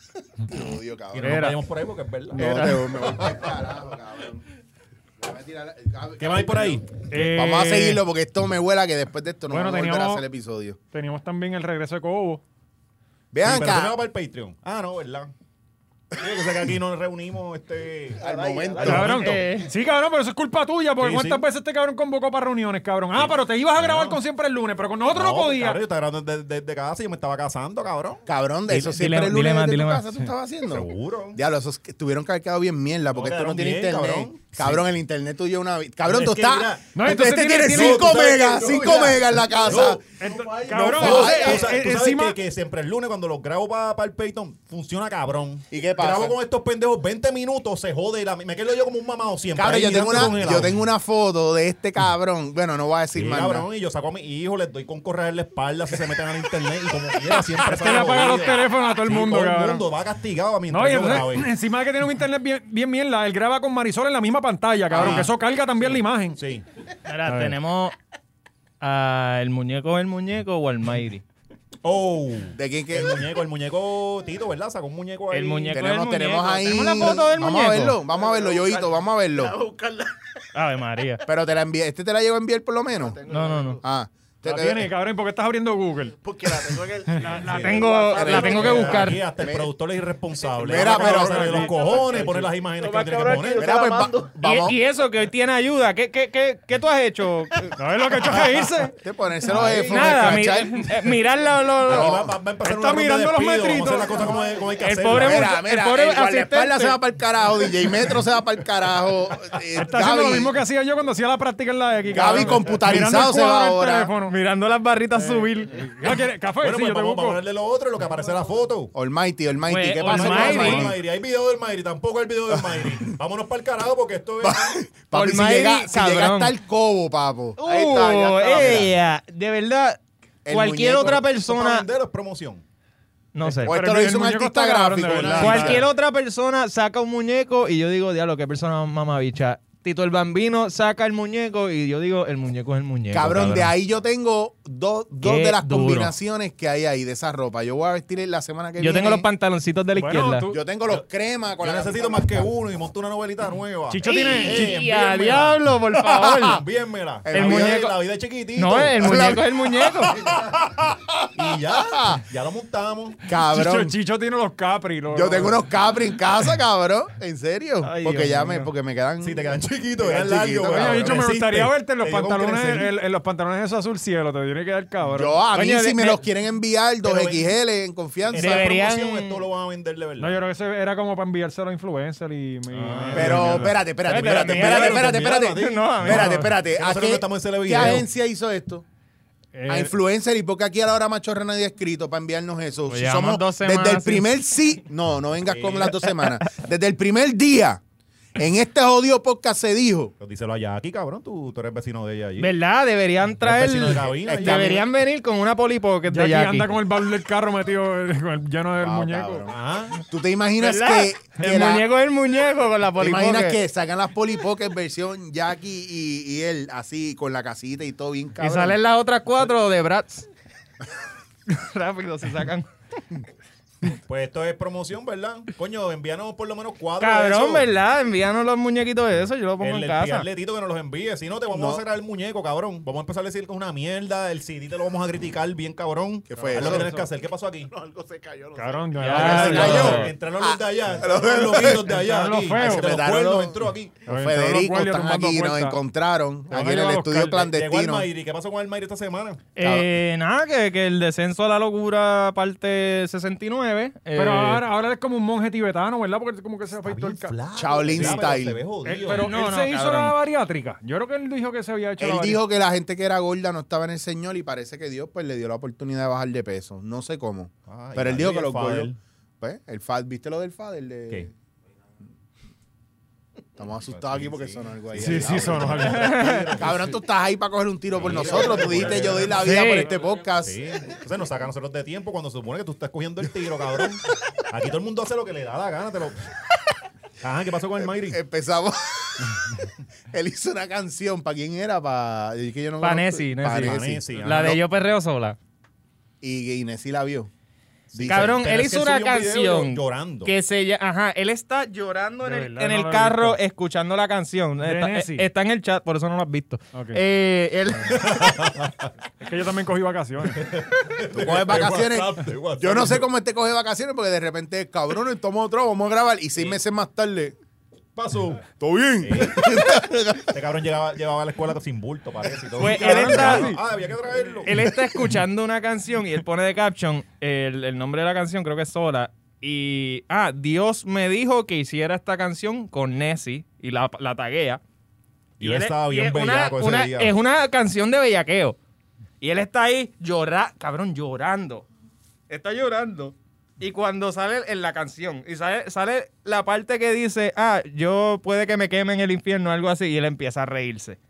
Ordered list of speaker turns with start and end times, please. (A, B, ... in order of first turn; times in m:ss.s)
0:00.4-0:01.5 A
0:01.1-0:03.5 B
0:02.3-0:04.4 A
0:05.2-0:10.8 A
0:06.2-0:06.9 B
0:07.1-0:08.0 C
0:09.5-0:10.2 C
0:10.9-0:12.4 C
0:13.3-0:14.0 A
0:13.4-0:15.3 B
0:16.1-0:18.2 B
0:18.2-0:19.2 D
0:18.2-0:19.4 A
0:18.8-0:19.4 B
0:18.8-0:25.8 C
0:19.2-0:19.7 E
0:21.0-0:21.4 B
0:23.2-0:24.2 B
0:25.1-0:28.2 B
0:28.3-0:40.0 A
0:28.7-0:30.0 E
0:30.7-0:31.4 B
0:33.1-0:34.8 B
0:36.1-0:36.9 B
0:36.9-0:38.2 C
0:37.7-0:40.0 B
0:39.5-0:41.8 D
0:40.2-0:42.4 C
0:40.7-0:41.6 A
0:40.8-0:50.8 B
0:45.7-0:46.4 A
0:49.6-0:53.7 A
0:53.2-1:01.5 B
0:57.3-0:59.8 C
1:00.7-1:06.4 C
1:04.9-1:05.3 A
1:04.9-1:06.6 B
1:07.0-1:08.0 E
1:07.3-1:07.6 C
1:08.8-1:11.2 E
1:11.8-1:15.8 B
1:12.6-1:13.2 A
1:15.3-1:18.0 E
1:15.7-1:19.6 A
1:18.0-1:20.2 D
1:20.5-1:21.2 E
1:21.3-1:23.2 A
1:22.9-1:23.8 D
1:23.3-1:23.8 E
1:23.8-1:24.9 A
1:24.4-1:26.2 C
1:26.2-1:29.1 D
1:27.2-1:29.3 E
1:27.3-1:33.7 B
1:28.1-1:29.7 A
1:30.4-1:34.3 D
1:30.6-1:32.4 A
1:31.3-1:31.6 C
1:33.6-1:34.8 A
1:34.4-1:37.8 E
1:37.8-1:39.0 C
1:38.9-1:41.2 A
1:39.5-1:40.4 B
1:39.8-1:42.2 E
1:41.9-1:45.6 B
1:41.9-1:42.4 A
1:42.6-1:44.4 C
1:44.2-1:44.7 D
1:44.8-1:47.0 E
1:45.1-1:50.6 A
1:49.7-1:54.3 C
1:52.1-1:54.1 A
1:52.3-1:52.6 B
1:54.3-1:55.8 E
1:55.2-1:57.4 C
1:56.6-1:58.9 B
1:58.9-2:01.0 A
1:59.7-2:00.9 E
2:00.0-2:04.8 B
2:04.4-2:07.6 A
2:05.1-2:06.6 E
2:07.6-2:11.9 E
2:07.6-2:08.8 D
2:08.6-2:08.9 B
2:08.6-2:08.9 A
2:10.4-2:11.2 A
2:11.0-2:12.6 B
2:13.3-2:13.8 E
2:13.6-2:15.9 C
2:13.6-2:15.9 A
2:15.4-2:23.7 E
2:23.1-2:29.3 A
2:25.2-2:26.1 E
2:28.8-2:30.5 E
2:30.0-2:30.6 C
2:30.5-2:32.5 A
2:31.6-2:35.6 B
2:33.9-2:34.8 C
2:34.0-2:36.6 E
2:36.0-2:36.6 A
2:36.4-2:39.4 B
2:37.2-2:37.8 A
2:37.3-2:38.0 E
2:38.6-2:40.2 E
2:39.0-2:42.2 A
2:40.1-2:40.6 B
2:41.4-2:43.2 B
2:43.3-2:44.0 A
2:43.3-2:45.6 C
2:45.1-2:51.2 A
2:47.8-2:48.7 E
2:49.2-2:52.9 B
2:50.7-2:55.4 C
2:55.0-2:58.7 A
2:55.5-2:56.2 E
2:57.0-2:57.4 B
2:58.3-3:00.4 B
2:58.4-2:59.4 E
3:00.2-3:03.8 C
3:02.7-3:08.1 B
3:03.1-3:08.8 A
3:04.1-3:06.4 E
3:06.1-3:06.5 C
3:09.5-3:09.9 C
3:09.7-3:17.8 A
3:12.9-3:14.3 E
3:15.5-3:15.9 B
3:18.4-3:20.1 A
3:20.2-3:22.5 B
3:22.4-3:26.7 E
3:23.4-3:24.8 B
3:24.2-3:24.8 A
3:26.1-3:29.5 C
3:28.8-3:31.9 A
3:29.5-3:30.0 B
3:30.6-3:33.6 E
3:33.0-3:38.8 A
3:38.4-3:40.3 E
3:41.5-3:42.7 E
3:44.1-3:47.7 B
3:47.0-3:50.3 E
3:49.6-3:57.7 B
3:51.5-3:51.8 A
3:56.3-3:56.9 A
3:56.4-3:57.1 C
3:56.5-3:59.4 D
3:58.6-4:00.1 C
3:59.0-4:00.1 E
3:59.1-4:04.0 B
3:59.2-4:02.0 A
4:01.0-4:01.8 D
4:01.9-4:02.9 C
4:02.6-4:08.1 A
4:04.0-4:05.8 C
4:06.5-4:07.4 C
4:07.3-4:09.5 B
4:09.6-4:14.6 E
4:09.6-4:09.9 A
4:14.2-4:17.3 C
4:16.8-4:19.3 B
4:17.6-4:18.6 A
4:18.8-4:22.4 C
4:19.2-4:20.2 E
4:22.0-4:31.3 A
4:27.7-4:29.0 B
4:33.6-4:36.0 A
4:33.9-4:37.0 B
4:35.0-4:36.3 C
4:35.8-4:36.6 E
4:36.6-4:40.6 A
4:37.9-4:46.2 B
4:39.4-4:39.9 E
4:47.2-4:48.2 B
4:47.8-4:49.3 A
4:50.1-4:54.6 A
4:52.8-4:55.4 E
4:53.5-4:54.6 B
4:56.2-4:57.3 A
4:57.9-4:58.4 A
4:57.9-5:00.3 B
4:58.1-5:08.2 E
5:02.2-5:03.4 C
5:04.6-5:05.3 C
5:06.7-5:07.0 C
5:07.8-5:08.9 B
5:09.2-5:10.5 C
5:10.3-5:13.1 B
5:11.1-5:17.4 A
5:18.0-5:19.7 B
5:18.6-5:20.4 A
5:20.3-5:24.5 B
5:22.6-5:23.6 E
5:22.6-5:23.6 C
5:22.9-5:23.4 A
5:24.4-5:34.6 E
5:24.5-5:25.1 A
5:35.4-5:37.1 B
5:35.4-5:38.6 E
5:39.2-5:41.7 E
5:42.3-5:51.0 E